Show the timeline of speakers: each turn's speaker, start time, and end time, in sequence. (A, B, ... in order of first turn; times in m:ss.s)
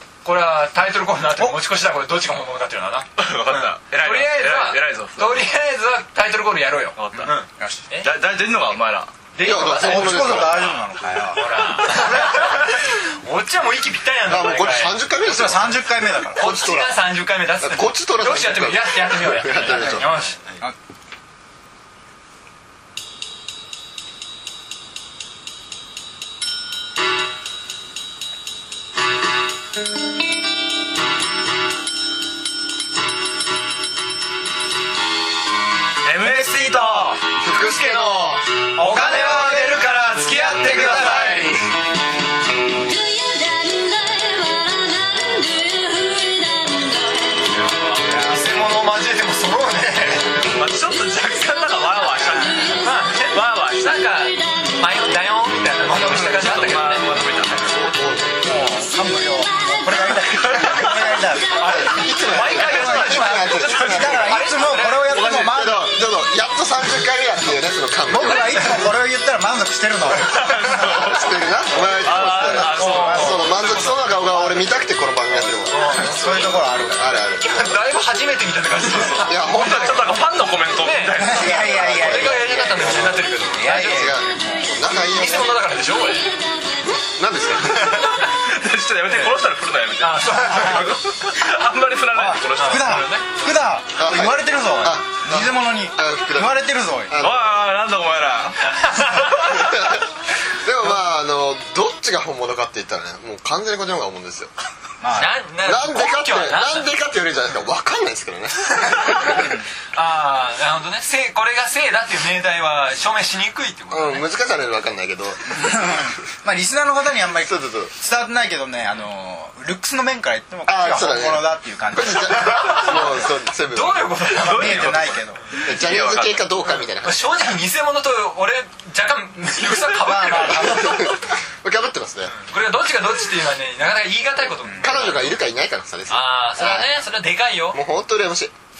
0:00.2-0:08.1 A
0:03.2-0:05.5 B
0:07.0-0:07.4 B
0:07.2-0:07.8 C
0:08.0-0:09.3 B
0:09.3-0:10.6 A
0:09.4-0:10.7 D
0:09.6-0:12.1 C
0:11.3-0:15.0 A
0:14.3-0:17.0 D
0:15.2-0:16.6 C
0:16.4-0:20.4 A
0:17.6-0:20.2 D
0:36.0-0:41.7 B
0:36.2-0:36.9 A
0:37.4-0:38.4 D
0:38.8-0:41.7 A
0:42.8-0:47.5 E
0:47.5-0:50.4 A
0:50.4-0:52.7 B
0:52.3-0:52.9 E
0:52.5-0:57.2 A
0:53.2-0:54.0 B
0:54.1-0:55.2 E
0:55.9-0:56.5 C
0:56.1-0:57.9 B
0:57.7-0:58.4 D
0:58.4-1:01.8 C
0:59.3-1:00.2 E
1:00.3-1:01.1 B
1:01.5-1:05.2 A
1:01.7-1:04.5 D
1:02.4-1:06.0 C
1:02.6-1:04.1 B
1:04.8-1:05.5 B
1:05.3-1:08.9 D
1:08.1-1:11.1 C
1:08.2-1:08.8 A
1:10.1-1:17.9 D
1:10.3-1:10.9 A
1:10.6-1:11.2 B
1:11.9-1:14.5 A
1:12.0-1:14.1 B
1:12.7-1:13.6 C
1:15.7-1:16.3 A
1:15.7-1:17.4 C
1:17.4-1:24.2 A
1:18.9-1:21.8 B
1:19.1-1:20.2 D
1:21.2-1:22.7 C
1:21.2-1:25.6 D
1:23.5-1:24.8 C
1:24.9-1:26.3 A
1:26.2-1:26.9 E
1:27.0-1:28.1 D
1:27.9-1:33.1 B
1:29.1-1:29.5 A
1:30.0-1:31.1 A
1:32.1-1:37.1 C
1:32.4-1:33.3 A
1:34.0-1:37.7 D
1:37.2-1:39.5 B
1:39.5-1:40.1 D
1:40.6-1:44.5 D
1:45.0-1:45.4 C
1:45.1-1:46.9 A
1:45.6-1:49.5 D
1:49.1-1:54.3 A
1:53.9-1:56.1 D
1:55.5-2:02.9 C
1:57.4-1:57.9 D
2:00.7-2:04.7 D
2:02.6-2:03.1 A
2:03.7-2:05.5 A
2:04.4-2:05.4 C
2:04.7-2:05.0 B
2:05.6-2:07.3 D
2:05.7-2:06.6 B
2:07.0-2:11.1 A
2:10.0-2:11.2 C
2:10.5-2:12.4 D
2:12.3-2:15.4 A
2:14.6-2:15.0 C
2:14.8-2:16.9 D
2:16.1-2:17.8 A
2:17.7-2:18.5 D